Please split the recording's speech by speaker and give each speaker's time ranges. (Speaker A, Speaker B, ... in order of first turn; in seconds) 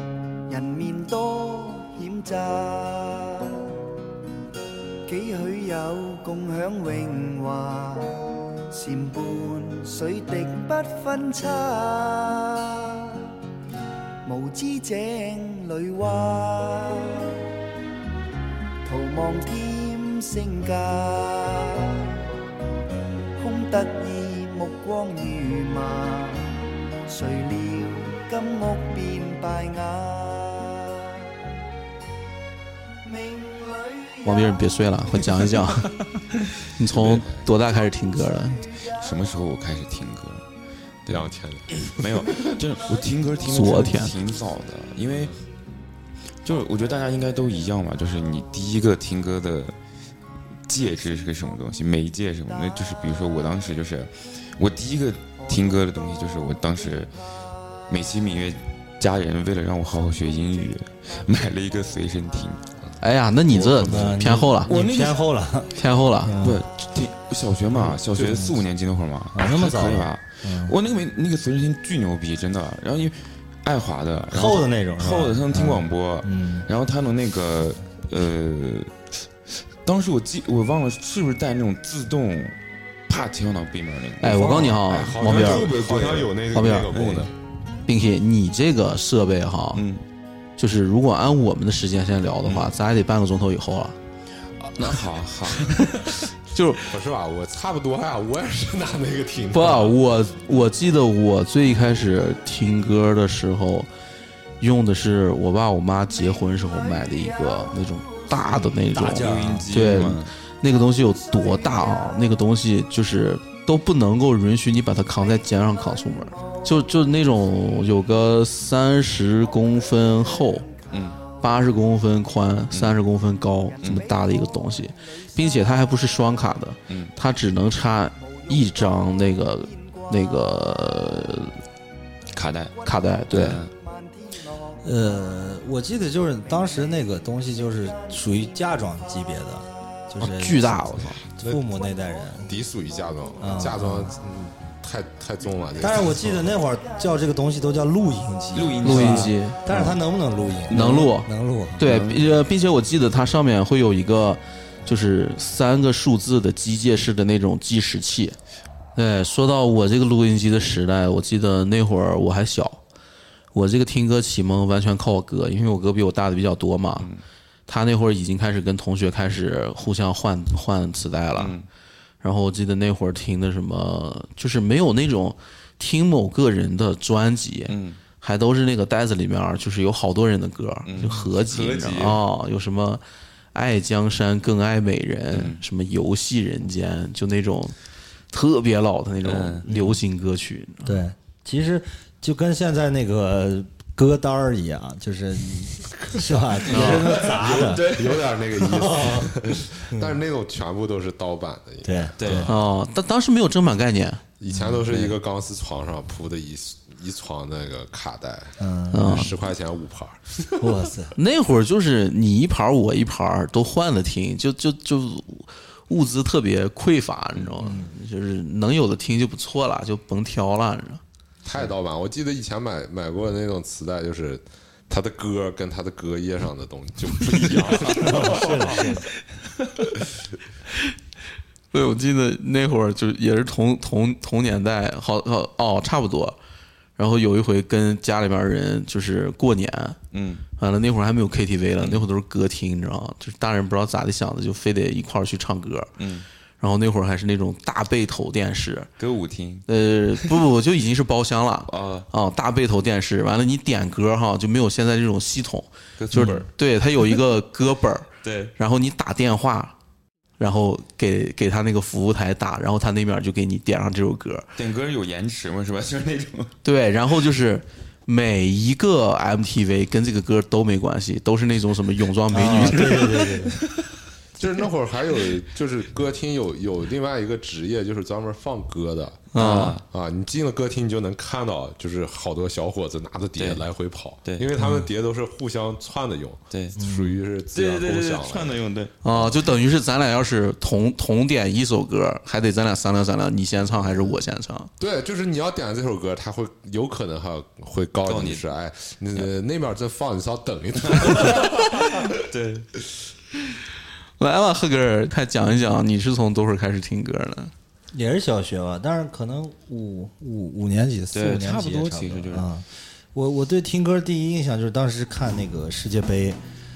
Speaker A: 0.5-3.7, 5.0-13.3, 14.2-17.3, 18.8-22.2, 23.4-31.1, 33.0-34.7
Speaker B: 34.2-35.9, 36.8-38.6, 43.5-44.1, 63.0-64.7, 65.8-66.3, 84.2-85.7, 86.5-86.9, 87.8-89.8, 90.6-94.0, 96.5-96.8, 99.5-103.9, 104.6-120.7, 121.4-131.6, 132.8-133.6, 140.2-141.2, 148.8-150.0, 150.7-158.3, 158.9-162.8, 163.5-167.1, 167.7-171.5, 172.2-183.0, 183.5-187.7, 188.3-191.0, 196.7-197.1, 202.5-204.2, 208.9-209.3, 211.2-221.0, 231.7-236.4, 237.0-240.0, 240.6-245.9, 246.6-248.9, 249.7-259.7, 260.4-264.5, 266.6-273.3, 279.3-279.8, 289.0-294.7, 304.2-307.5
Speaker C: 36.9-37.5, 41.1-42.5, 68.1-68.5, 84.5-87.3, 96.8-100.0, 142.4-146.6, 197.1-202.5, 204.4-210.8, 221.4-229.0, 274.4-279.3, 279.9-288.6, 294.8-301.8
Speaker D: 39.0-40.4, 41.0-41.3, 41.8-45.3, 46.4-49.8, 50.6-57.1, 57.9-62.6, 64.6-65.2, 66.4-82.5, 83.1-87.3, 89.7-90.0, 94.6-96.0, 109.0-110.3, 120.9-121.2, 122.7-123.0, 126.9-127.1, 132.3-132.7, 133.3-133.7, 148.5-149.3, 151.8-152.3, 171.4-171.7, 177.7-178.0, 180.8-182.2, 185.3-185.6, 189.2-189.7, 196.7-198.4, 202.2-202.5, 227.4-228.2, 240.1-240.4, 246.0-246.2, 249.0-249.7, 251.7-252.1, 256.0-256.4, 258.2-258.5, 264.6-266.5, 279.3-279.8, 283.4-283.6, 286.5-286.8, 287.5-289.0, 298.0-298.4, 300.8-302.7, 311.1-312.5
Speaker E: 63.5-65.7, 66.2-66.6, 67.8-68.6, 69.3-70.7, 74.3-76.7, 108.9-109.7, 134.8-142.5, 143.4-144.1, 145.8-151.8, 189.7-190.0, 190.8-198.0, 198.6-200.2, 201.8-202.5, 204.5-205.1, 208.6-209.3, 210.6-211.2, 217.6-217.9, 228.0-229.0, 256.1-256.4, 272.3-273.6, 284.6-284.9, 286.8-287.2, 307.9-316.4